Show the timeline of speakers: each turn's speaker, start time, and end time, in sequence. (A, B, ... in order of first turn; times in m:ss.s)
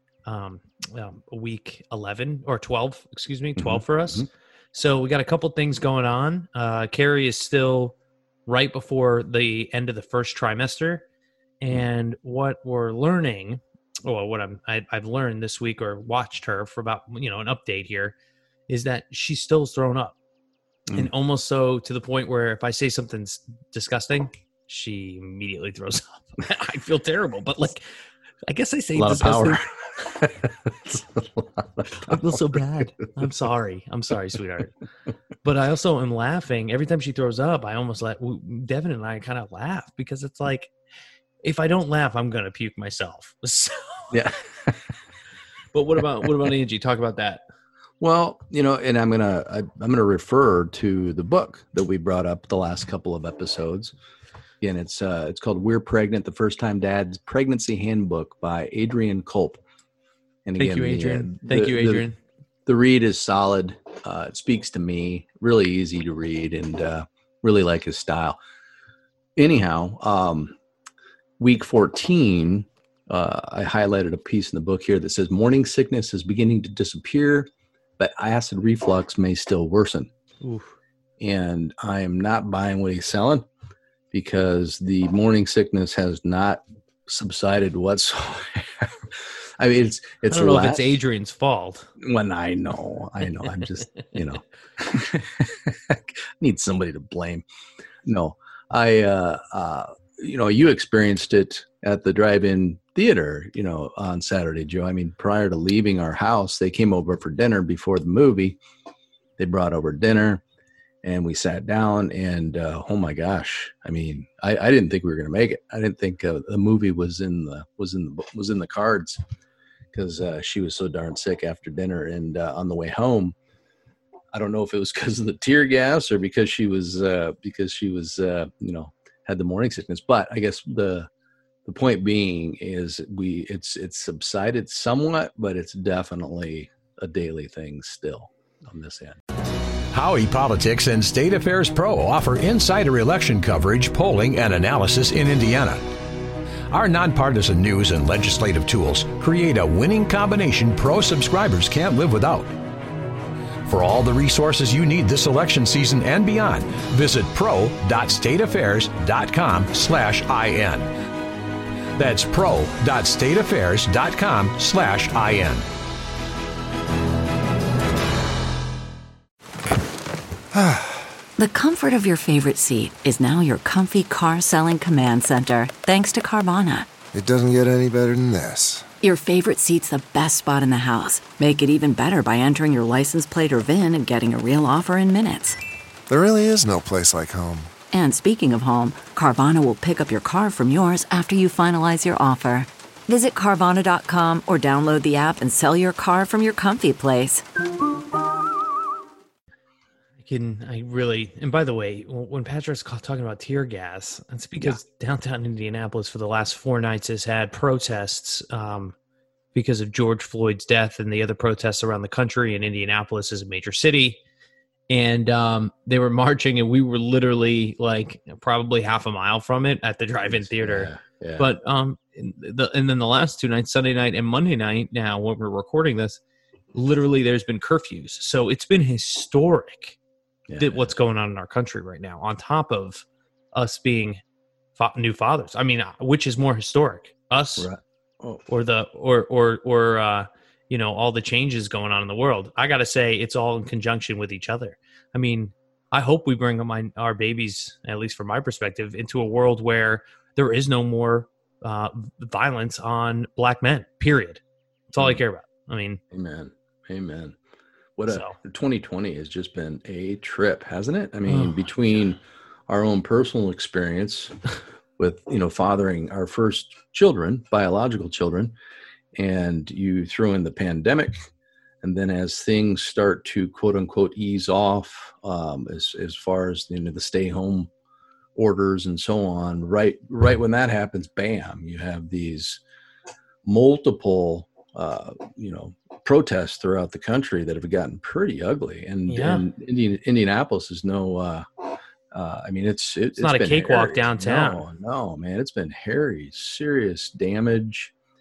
0:00.2-0:07.9 A
0:03.6-0:04.3 B
0:08.4-0:11.0 A
0:11.6-0:18.1 A
0:18.7-0:20.2 A
0:20.9-0:27.8 A
0:28.4-0:29.6 A
0:28.9-0:32.6 B
0:32.0-0:34.7 A
0:35.4-0:40.7 A
0:41.4-0:44.2 A
0:44.1-0:44.8 B
0:45.7-0:47.4 A
0:48.0-0:53.9 B
0:54.6-0:59.6 B
1:00.4-1:02.0 B
1:00.6-1:02.2 A
1:02.6-1:08.4 B
1:09.4-1:10.6 B
1:11.4-1:20.1 B
1:20.4-1:20.7 A
1:21.2-1:23.4 B
1:24.1-1:31.0 B
1:30.3-1:31.9 A
1:32.0-1:37.4 B
1:38.0-1:48.6 B
1:49.4-1:50.4 B
1:51.0-1:59.2 B
1:59.9-2:03.4 B
2:04.3-2:11.1 B
2:11.6-2:19.2 B
2:19.9-2:25.8 C
2:26.7-2:32.5 C
2:33.7-2:40.9 C
2:42.0-2:45.6 C
2:50.5-2:51.1 D
2:51.4-2:56.9 E
2:57.1-2:58.9 D
2:59.0-3:05.6 E
3:06.1-3:07.7 D
3:07.9-3:17.4 E
3:20.2-3:28.9 A
3:29.5-3:34.2 A
3:34.9-3:46.2 A
3:40.3-3:41.5 B
3:46.7-3:50.0 A
3:50.5-3:50.9 B
3:50.6-3:54.2 A
3:54.8-3:57.7 A
3:57.6-3:58.4 B
3:58.5-4:16.0 A
4:16.1-4:17.4 B
4:18.0-4:24.4 B
4:18.1-4:18.4 A
4:21.2-4:21.6 A
4:25.0-4:28.5 B
4:29.1-4:31.3 B
4:31.8-4:37.7 B
4:38.3-4:42.6 B
4:43.4-4:57.9 B
4:49.1-4:49.4 A
4:53.2-4:54.6 A